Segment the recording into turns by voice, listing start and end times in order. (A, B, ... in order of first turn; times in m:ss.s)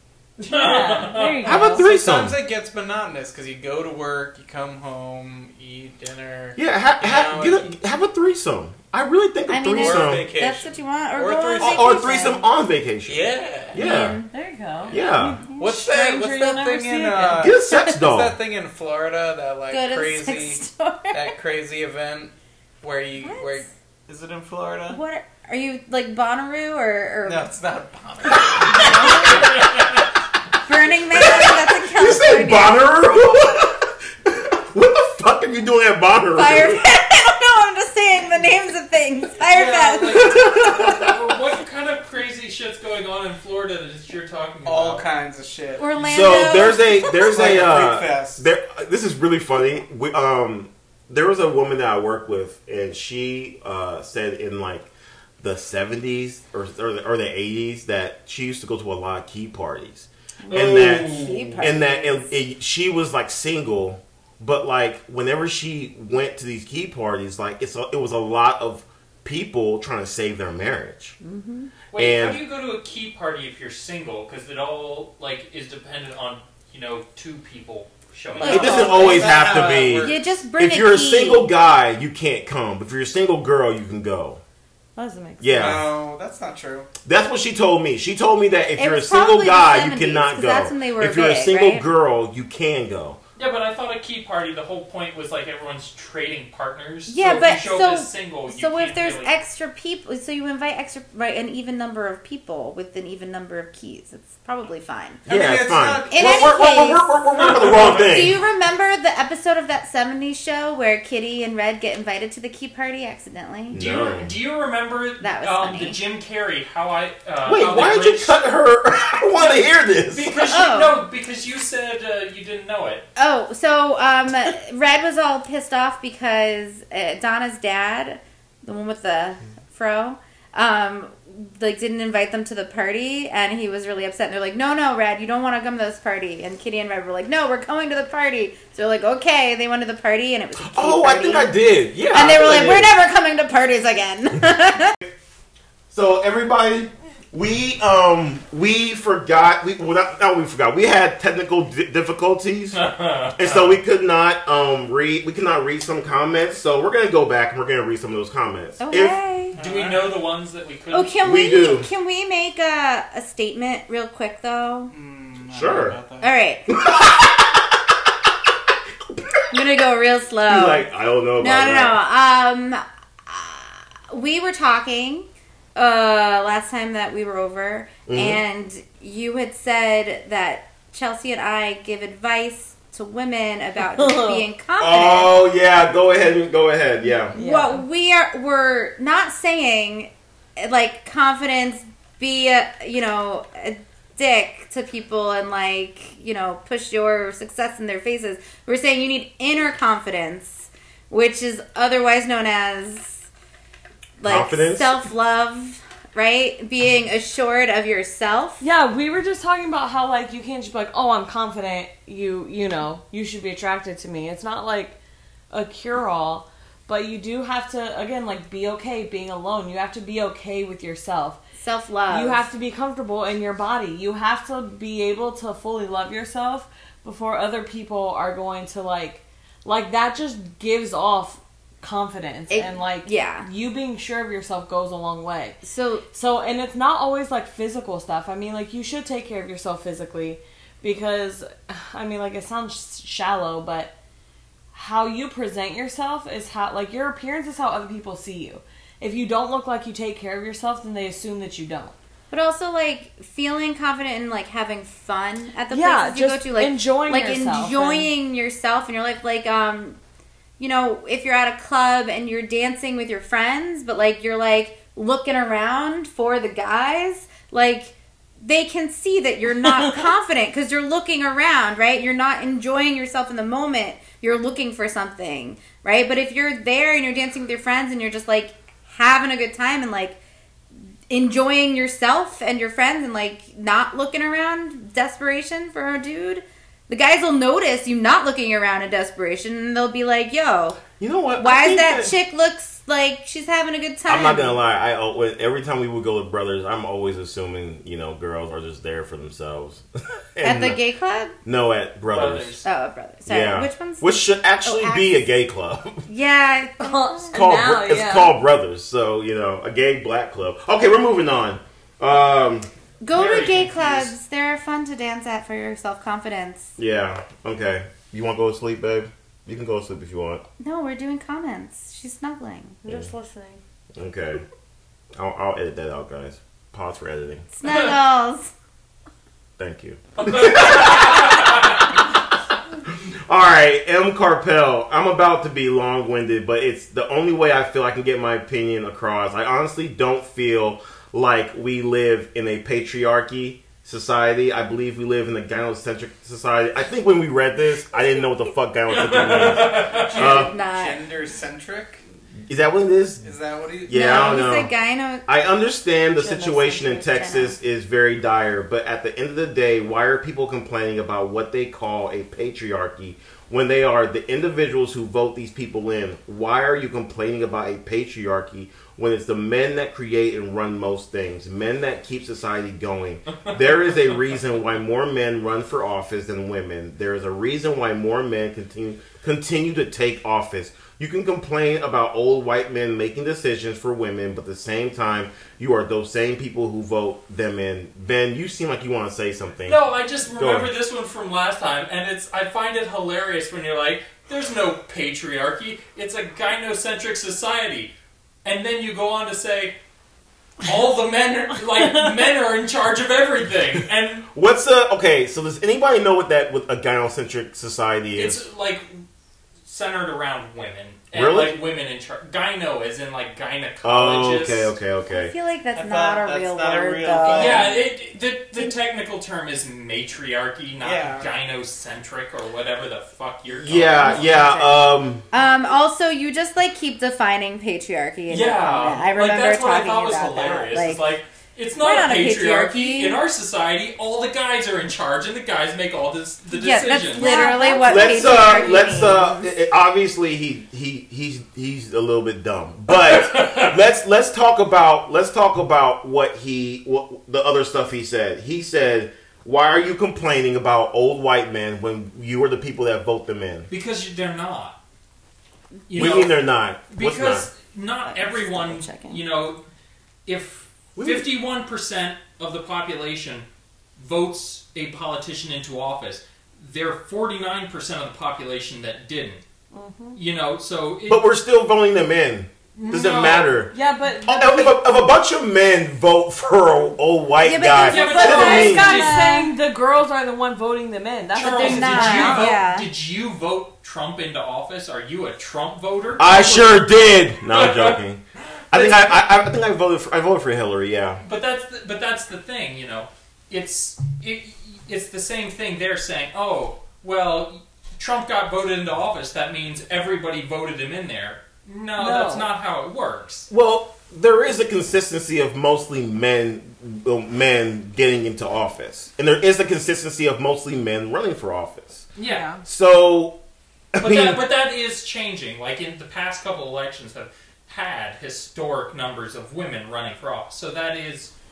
0:00.4-0:01.4 A
0:00.4-0:01.9 B
0:01.4-0:02.4 C
0:01.5-0:07.7 D
0:06.6-0:10.3 C
0:09.5-0:12.4 E
0:09.7-0:12.3 D
0:11.6-0:14.2 C
0:13.1-0:13.8 D
0:13.7-0:14.3 E
0:14.3-0:17.5 B
0:14.9-0:15.4 C
0:15.6-0:25.0 D
0:17.4-0:18.4 C
0:19.7-0:21.3 E
0:23.2-0:23.6 E
0:24.9-0:27.5 E
0:27.2-0:29.6 D
0:28.3-0:29.6 E
0:30.6-0:32.8 E
0:31.1-0:36.8 C
0:36.4-0:40.6 E
0:39.4-0:45.1 A
0:40.2-0:41.1 C
0:44.6-0:45.9 D
0:45.8-0:47.3 E
0:46.0-0:54.9 C
0:47.2-0:48.4 D
0:55.4-1:11.2 C
1:00.4-1:02.3 E
1:00.5-1:01.7 A
1:11.2-1:11.7 E
1:11.9-1:19.0 A
1:11.9-1:12.4 C
1:18.4-1:20.3 D
1:18.4-1:21.5 E
1:18.4-1:24.4 C
1:25.0-1:25.8 B
1:25.4-1:25.9 C
1:25.6-1:26.9 D
1:27.0-1:33.2 C
1:28.8-1:31.8 E
1:33.4-1:39.3 A
1:37.1-1:45.2 E
1:45.2-1:46.8 D
1:45.3-1:48.4 C
1:46.1-1:47.2 E
1:47.4-1:48.1 A
1:47.9-1:53.8 E
1:53.7-1:54.4 C
1:53.7-1:58.4 A
1:55.2-1:56.0 E
1:57.4-2:00.3 C
2:00.1-2:03.1 A
2:00.4-2:01.0 E
2:03.2-2:21.5 E
2:20.6-2:22.9 C
2:22.1-2:25.0 E
2:25.9-2:32.8 C
2:32.7-2:33.8 A
2:33.4-2:39.2 C
2:38.8-2:39.6 E
2:39.5-2:40.1 D
2:39.6-2:41.1 A
2:40.9-2:44.9 E
2:41.2-2:41.9 C
2:44.9-2:46.3 D
2:45.5-2:46.0 C
2:46.2-2:46.7 E
2:46.7-2:47.8 C
2:49.1-2:49.6 C
2:49.5-2:50.9 E
2:50.5-2:52.0 C
2:51.4-3:05.4 E
2:58.1-2:58.4 C
3:03.9-3:04.4 B
3:04.8-3:07.4 C
3:07.3-3:23.2 E
3:07.4-3:07.8 B
3:24.2-3:28.6 E
3:24.2-3:25.0 C
3:28.6-3:35.0 B
3:35.5-3:41.4 B
3:41.6-3:42.4 E
3:42.1-4:03.9 B
3:52.5-3:53.5 E
3:55.6-3:56.0 E
4:04.7-4:11.9 B
4:12.3-4:20.0 E
4:15.7-4:18.1 B
4:20.6-4:40.2 E
4:41.1-4:50.8 E
4:51.0-4:52.1 C
4:51.4-4:54.6 E
4:54.1-4:59.8 C
5:00.4-5:00.8 C
5:00.4-5:01.3 E
5:01.4-5:02.6 C
5:02.1-5:02.6 A
5:02.6-5:04.1 E
5:03.2-5:06.1 C
5:04.6-5:05.2 E
5:06.1-5:07.4 E
5:06.8-5:08.3 B
5:07.3-5:12.7 C
5:13.0-5:16.7 E
5:13.1-5:14.1 A
5:16.8-5:20.4 C
5:20.6-5:22.8 E
5:22.8-5:23.6 B
5:24.0-5:24.4 C
5:25.1-5:27.4 C
5:27.6-5:28.5 E
5:29.6-5:31.7 C
5:30.2-5:31.9 A
5:32.9-5:50.5 C
5:48.9-5:50.3 A
5:50.0-5:52.0 D
5:50.1-5:51.0 E
5:52.5-5:53.3 C
5:53.2-5:54.4 D
5:53.9-5:54.7 C
5:53.9-5:55.2 E
5:55.3-6:30.7 C
5:56.2-5:57.6 E
6:29.6-6:39.8 A
6:40.6-6:44.3 A
6:44.3-6:48.4 C
6:48.2-6:49.0 A
6:49.6-6:54.7 A
6:51.1-6:51.6 C
6:53.8-6:55.3 C
6:55.1-6:57.8 E
6:55.7-6:57.7 D
6:57.3-7:04.4 A
7:00.8-7:01.3 D
7:03.5-7:05.2 C
7:04.0-7:11.0 E
7:08.3-7:17.3 A
7:11.8-7:13.2 E
7:16.5-7:19.5 E
7:17.0-7:19.0 B
7:17.8-7:33.7 C
7:23.0-7:23.7 A
7:33.7-7:34.8 A
7:35.9-7:39.6 A
7:36.0-7:37.5 C
7:38.0-7:39.2 E
7:40.2-7:43.4 A
7:41.0-7:41.3 C
7:44.0-7:49.4 A
7:49.7-7:50.2 B
7:50.1-7:51.2 A
7:51.1-7:53.7 C
7:52.8-7:53.6 A
7:53.7-7:54.8 B
7:54.2-7:59.0 C
7:57.4-7:59.5 E
7:57.7-7:59.4 A
7:58.1-8:02.6 B
8:01.4-8:08.0 A
8:01.6-8:02.9 E
8:06.2-8:08.2 C
8:08.7-8:09.3 A
8:08.7-8:11.2 C
8:11.2-8:23.5 A
8:22.0-8:22.5 B
8:23.5-8:32.1 C
8:32.2-8:32.5 A
8:32.2-8:32.6 B
8:32.6-8:33.4 C
8:33.9-8:34.4 C
8:34.0-8:41.3 A